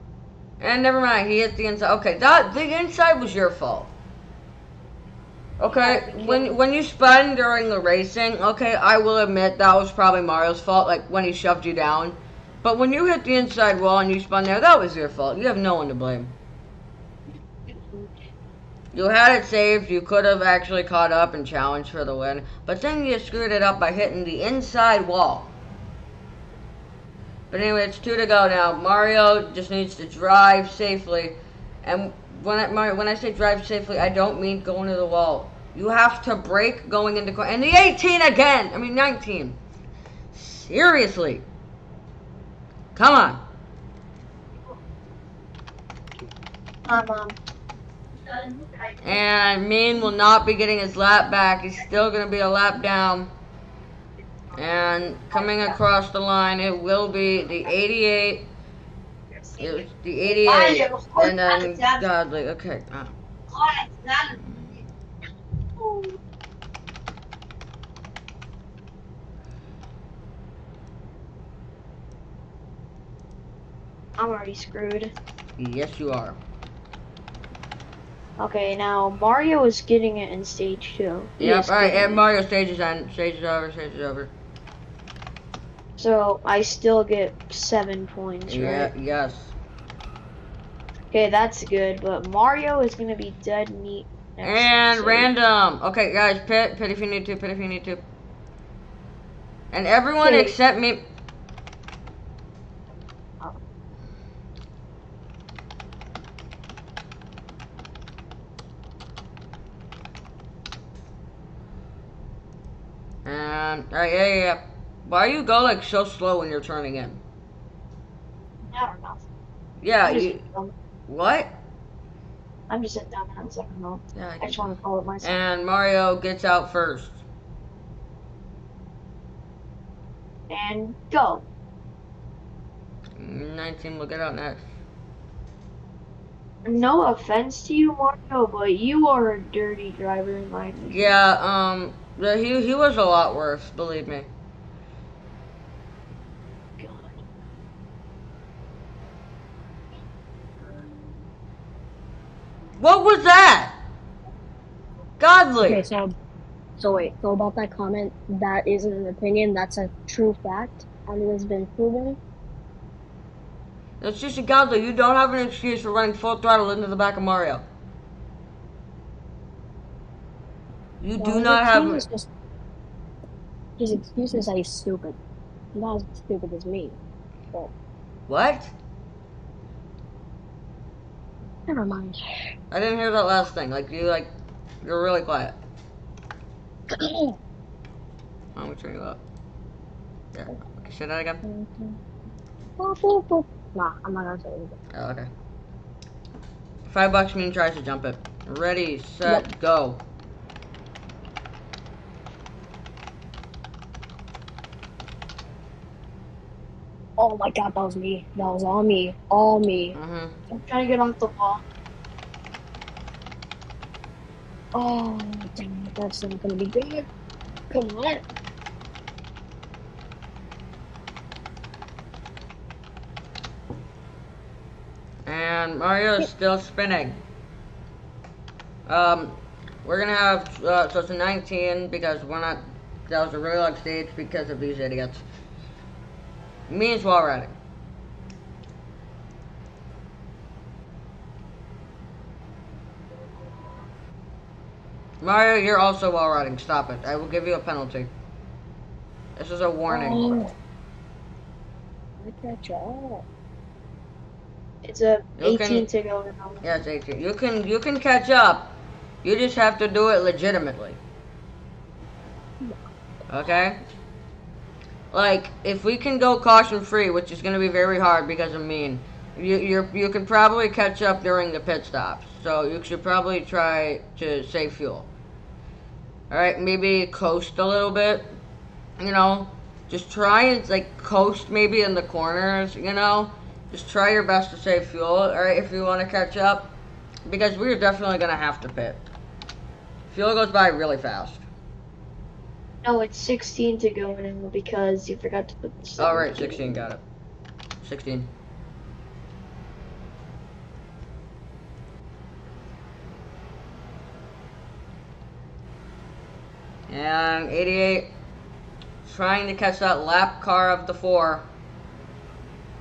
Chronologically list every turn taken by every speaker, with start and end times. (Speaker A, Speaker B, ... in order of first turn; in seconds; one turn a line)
Speaker A: 0.6-3.9
Speaker A: 5.6-16.3
Speaker B: 5.7-6.6
Speaker B: 17.7-18.1
Speaker A: 18.9-25.5
Speaker A: 27.5-39.6
Speaker A: 40.3-41.5
Speaker A: 43.0-43.4
Speaker B: 46.9-47.4
Speaker B: 48.4-48.7
Speaker A: 49.0-53.3
Speaker A: 54.5-58.5
Speaker B: 59.3-62.0
Speaker A: 59.6-63.1
Speaker B: 63.5-64.4
Speaker A: 64.4-64.7
Speaker B: 65.8-66.2
Speaker B: 74.2-75.1
Speaker A: 75.6-76.4
Speaker B: 78.4-82.2
Speaker A: 81.4-84.3
Speaker B: 86.0-88.9
Speaker A: 88.5-89.5
Speaker B: 91.1-95.3
Speaker A: 94.4-98.0
Speaker A: 99.7-101.0
Speaker B: 100.2-100.6
Speaker A: 113.3-117.2
Speaker B: 118.7-119.2
Speaker A: 119.8-120.5
Speaker B: 120.0-120.7
Speaker A: 121.1-121.5
Speaker B: 122.7-125.4
Speaker A: 124.2-127.2
Speaker B: 130.5-131.5
Speaker A: 133.2-134.6
Speaker B: 136.7-141.1
Speaker A: 140.9-144.3
Speaker B: 146.8-147.2
Speaker A: 152.8-153.8
Speaker A: 155.2-155.8
Speaker C: 155.6-156.1
Speaker C: 156.8-162.2
Speaker A: 164.0-167.7
Speaker A: 171.0-172.1
Speaker C: 171.2-172.3
Speaker C: 173.8-175.2
Speaker C: 175.7-177.0
Speaker A: 178.3-178.7
Speaker C: 181.7-182.2
Speaker A: 182.7-184.3
Speaker A: 184.8-185.6
Speaker C: 186.9-187.4
Speaker A: 188.6-189.2
Speaker A: 190.3-191.4
Speaker C: 191.4-192.0
Speaker C: 192.8-194.8
Speaker A: 194.9-195.3
Speaker A: 196.9-200.0
Speaker C: 207.2-210.0
Speaker A: 209.9-210.3
Speaker B: 210.5-211.6
Speaker C: 214.7-217.1
Speaker C: 217.7-218.2
Speaker A: 225.3-227.2
Speaker A: 228.9-235.2
Speaker A: 236.7-237.6
Speaker A: 245.2-248.1
Speaker A: 249.4-250.4
Speaker C: 249.9-250.5
Speaker C: 252.2-253.2
Speaker B: 254.8-256.6
Speaker A: 255.4-255.9
Speaker A: 256.6-261.0
Speaker A: 263.3-263.8
Speaker A: 265.1-275.1
Speaker A: 276.3-278.4
Speaker A: 279.0-286.7
Speaker A: 287.3-289.1
Speaker A: 290.1-291.4
Speaker B: 292.8-296.9
Speaker A: 296.0-297.0
Speaker A: 297.8-298.3
Speaker A: 306.9-308.1
Speaker A: 309.0-311.5